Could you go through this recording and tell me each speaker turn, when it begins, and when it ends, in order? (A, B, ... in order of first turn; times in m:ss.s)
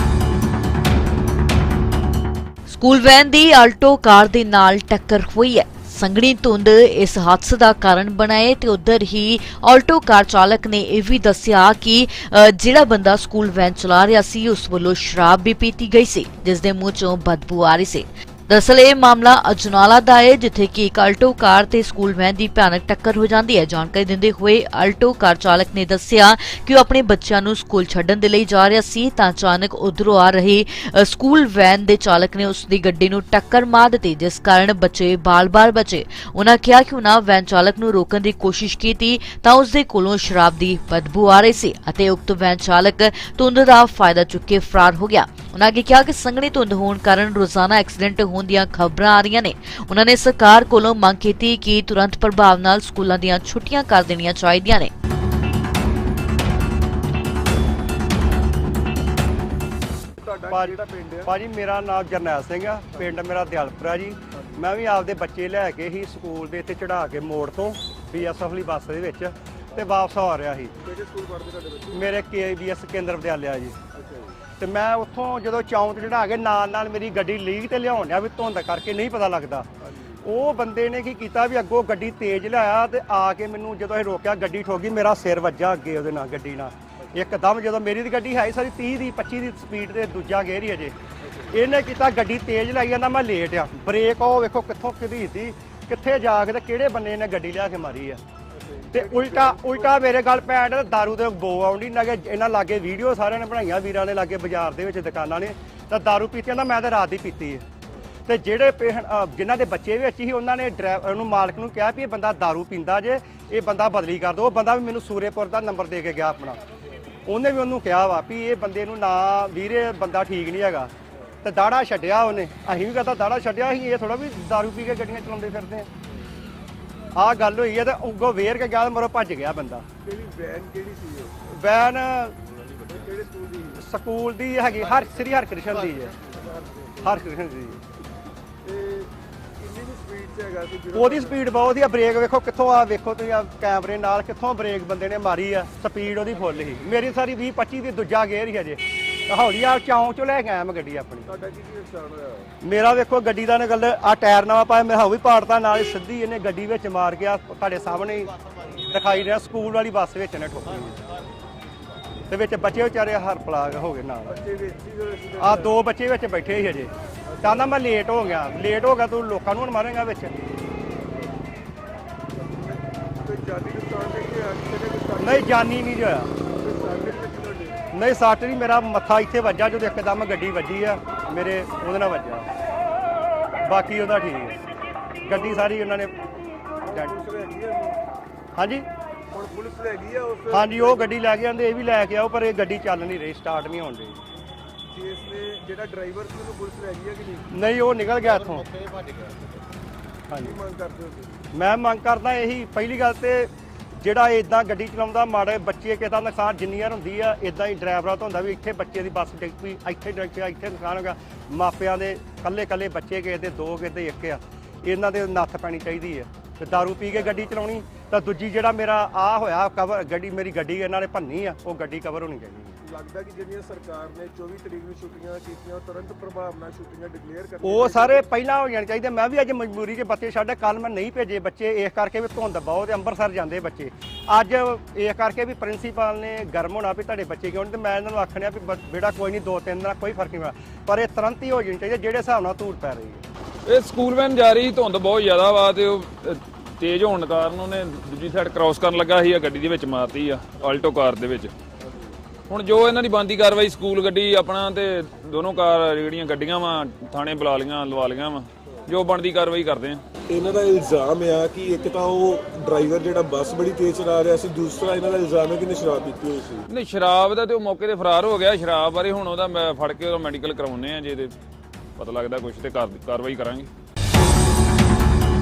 0:02.7-0:54.9 A
1:00.2-1:01.3 B
1:00.5-1:10.7 C
1:04.3-1:04.6 B
1:10.8-1:12.1 B
1:11.9-1:13.8 C
1:13.9-1:14.4 B
1:14.6-1:19.7 C
1:19.8-1:20.2 B
1:20.2-1:30.9 C
1:27.0-1:27.3 B
1:31.2-1:31.6 B
1:31.5-1:38.2 C
1:38.5-1:40.0 B
1:38.9-1:47.6 C
1:47.9-1:48.1 B
1:48.3-1:56.6 C
1:57.3-2:00.9 C
2:01.1-2:01.4 B
2:01.4-2:05.9 C
2:06.1-2:06.3 B
2:07.2-2:09.8 C
2:10.0-2:11.4 B
2:11.5-2:12.4 C
2:12.8-2:13.8 B
2:13.8-2:16.2 C
2:16.2-2:17.1 B
2:17.0-2:17.8 C
2:18.6-2:21.4 B
2:20.9-2:31.3 C
2:31.2-2:32.5 B
2:32.6-2:38.3 C
2:38.9-2:41.0 C
2:42.3-2:44.3 C
2:44.3-2:45.7 B
2:45.4-2:50.3 C
2:47.2-2:47.7 B
2:52.3-2:55.6 B
2:55.2-2:56.3 C
2:56.4-2:57.8 B
2:57.9-3:02.5 C
3:03.6-3:04.6 C
3:05.2-3:06.1 C
3:05.2-3:05.7 B
3:06.8-3:08.0 B
3:08.6-3:08.9 C
3:09.3-3:11.1 B
3:10.5-3:14.2 C
3:14.9-3:17.4 B
3:17.5-3:18.7 C
3:20.3-3:20.5 C
3:20.4-3:21.4 B
3:21.5-3:23.5 C
3:24.0-3:42.8 C
3:37.1-3:37.5 B
3:42.8-3:48.2 B
3:47.6-4:03.2 C
4:03.7-4:11.5 D
4:11.8-4:12.2 B
4:12.5-4:20.0 D
4:20.3-4:26.6 E
4:26.7-4:31.3 D
4:32.0-4:33.7 D